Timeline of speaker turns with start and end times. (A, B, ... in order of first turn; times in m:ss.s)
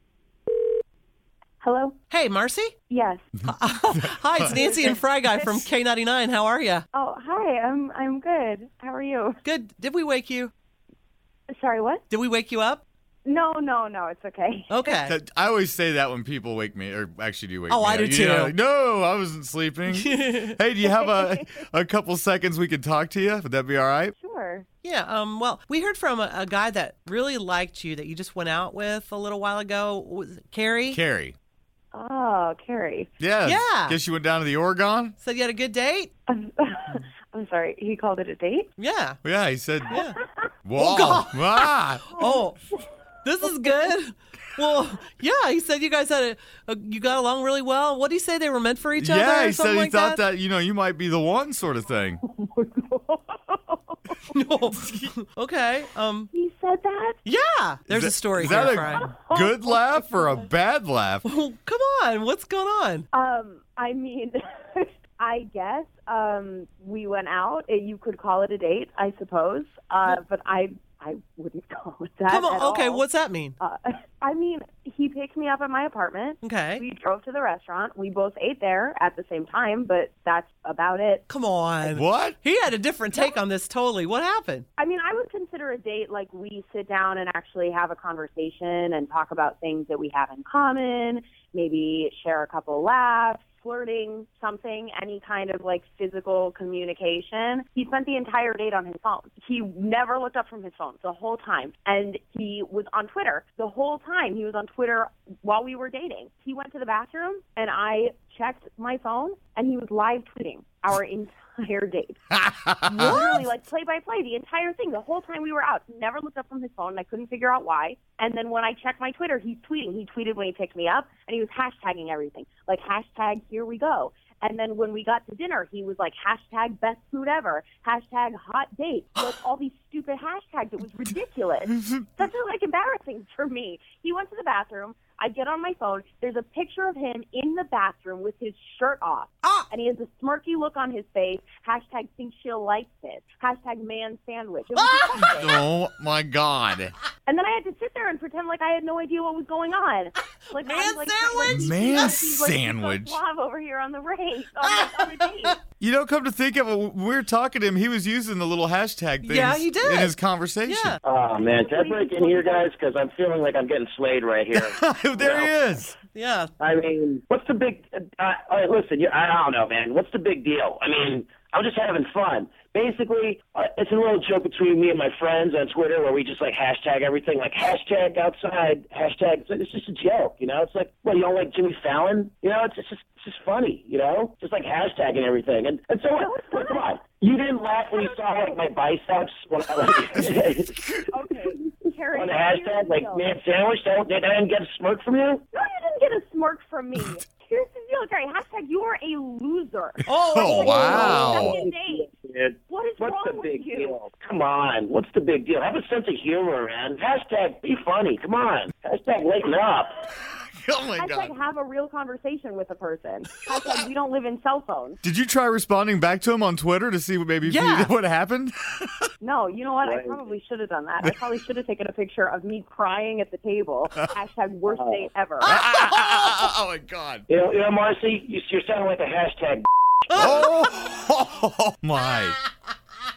0:01.6-0:02.0 A
0:02.1-0:02.7 B
0:02.9-0:03.3 A
0:03.4-0:06.8 B
0:04.5-0:05.6 A
0:06.9-0:09.4 A
0:09.4-0:10.5 B
0:11.5-0:12.0 A
0:12.1-0:12.8 B
0:13.2-0:15.0 A
0:14.7-0:15.1 B
0:15.1-0:24.1 C
0:17.7-0:18.5 B
0:19.9-0:20.5 B
0:20.9-0:21.2 A
0:24.2-0:24.6 A
0:24.8-0:31.0 B
0:30.9-0:31.3 C
0:31.9-0:33.1 A
0:33.2-0:35.1 C
0:33.4-0:34.0 B
0:35.2-0:36.1 B
0:36.3-0:38.7 A
0:38.8-0:39.2 B
0:39.2-0:40.0 C
0:39.9-0:40.2 B
0:39.9-0:40.4 A
0:40.6-0:42.1 C
0:40.8-0:42.6 B
0:43.2-0:50.2 B
0:49.0-0:52.2 C
0:52.2-0:54.2 A
0:54.3-0:56.3 B
0:56.3-0:57.2 A
0:57.2-0:59.1 B
0:57.9-1:01.2 C
0:58.8-1:00.3 A
1:01.2-1:03.0 B
1:03.1-1:13.1 A
1:12.3-1:13.5 B
1:13.6-1:21.2 A
1:16.4-1:16.8 B
1:21.3-1:24.6 B
1:21.8-1:22.4 C
1:24.8-1:52.2 A
1:52.4-1:53.1 C
1:52.9-2:25.6 A
1:53.0-1:53.3 B
2:24.8-2:25.3 B
2:25.2-2:26.9 C
2:27.2-2:35.6 A
2:30.5-2:31.8 B
2:31.4-2:33.2 C
2:34.6-2:35.5 B
2:35.8-2:41.0 C
2:39.2-2:41.0 B
2:41.0-2:45.5 D
2:41.4-2:42.7 A
2:44.5-2:46.0 C
2:46.1-2:46.5 B
2:46.6-3:10.8 D
3:06.1-3:06.9 A
3:07.9-3:08.6 A
3:11.1-3:13.3 A
3:12.1-3:15.4 D
3:15.5-3:22.1 A
3:20.1-3:21.1 B
3:20.3-3:21.6 C
3:20.8-3:30.0 D
3:22.7-3:24.0 A
3:30.3-3:31.3 C
3:31.0-3:35.0 A
3:35.0-3:39.0 C
3:37.4-3:37.9 B
3:39.2-3:45.5 A
3:39.8-3:40.3 D
3:44.7-3:45.1 D
3:45.4-3:47.2 C
3:45.5-3:46.4 B
3:47.3-3:50.4 D
3:50.1-3:50.6 B
3:50.2-3:52.4 C